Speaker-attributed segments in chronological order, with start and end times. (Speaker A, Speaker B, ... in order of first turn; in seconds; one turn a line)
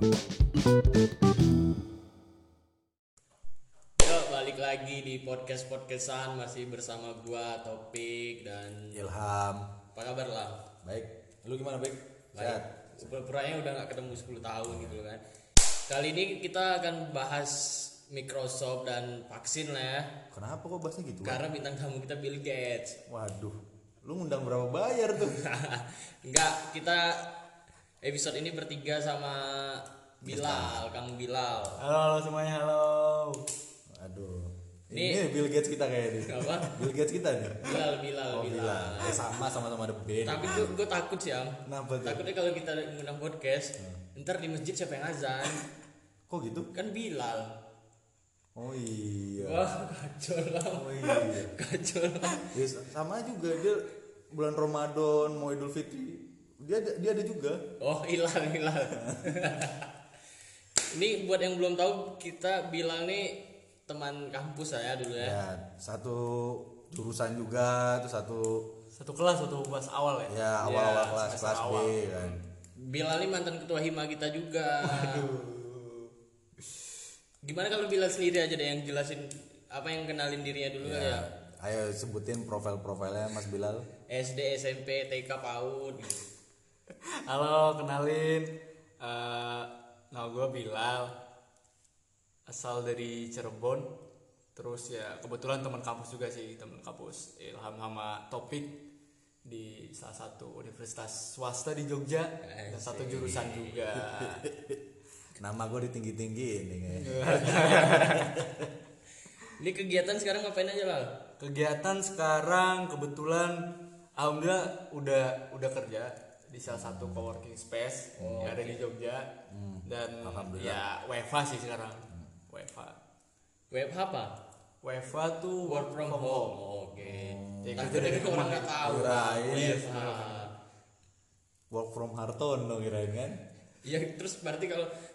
Speaker A: 4.0-9.1
Speaker B: 8.9-9.7
Speaker A: 9.9-10.6
Speaker B: 10.8-13.1
Speaker A: 12.3-15.2
Speaker B: 14.7-15.0
Speaker A: 15.9-20.1
Speaker B: 20.3-21.4
Speaker A: 21.2-23.0
Speaker B: 23.1-25.4
Speaker A: 25.2-27.3
Speaker A: 28.0-31.8
Speaker B: 30.2-30.8
Speaker C: 31.8-33.4
Speaker B: 33.9-40.8
Speaker A: 34.9-35.3
Speaker A: 36.2-36.9
Speaker A: 37.6-39.4
Speaker A: 40.2-45.6
Speaker B: 41.6-42.2
Speaker B: 46.3-46.7
Speaker A: 46.7-47.5
Speaker B: 48.5-49.8
Speaker A: 49.4-52.5
Speaker B: 50.7-51.5
Speaker B: 52.4-57.6
Speaker A: 57.8-59.9
Speaker A: 60.9-65.4
Speaker B: 65.2-68.7
Speaker C: 68.9-72.3
Speaker B: 70.3-72.4
Speaker A: 72.8-75.3
Speaker C: 74.8-76.1
Speaker A: 77.4-81.3
Speaker B: 80.8-83.9
Speaker A: 84.1-86.2
Speaker C: 86.9-91.1
Speaker C: 92.5-93.9
Speaker C: 94.5-98.8
Speaker C: 99.4-104.4
Speaker A: 102.4-103.8
Speaker B: 103.9-104.8
Speaker B: 105.4-108.7
Speaker C: 106.9-108.3
Speaker A: 109.4-111.1
Speaker C: 111.4-113.7
Speaker C: 114.2-119.3
Speaker B: 116.7-117.3
Speaker B: 118.2-118.6
Speaker A: 118.2-118.8
Speaker B: 119.5-120.8
Speaker C: 119.8-123.0
Speaker A: 123.7-124.3
Speaker C: 124.8-126.6
Speaker A: 125.7-130.5
Speaker B: 127.0-129.8
Speaker C: 127.6-130.5
Speaker B: 131.7-133.4
Speaker A: 133.8-134.9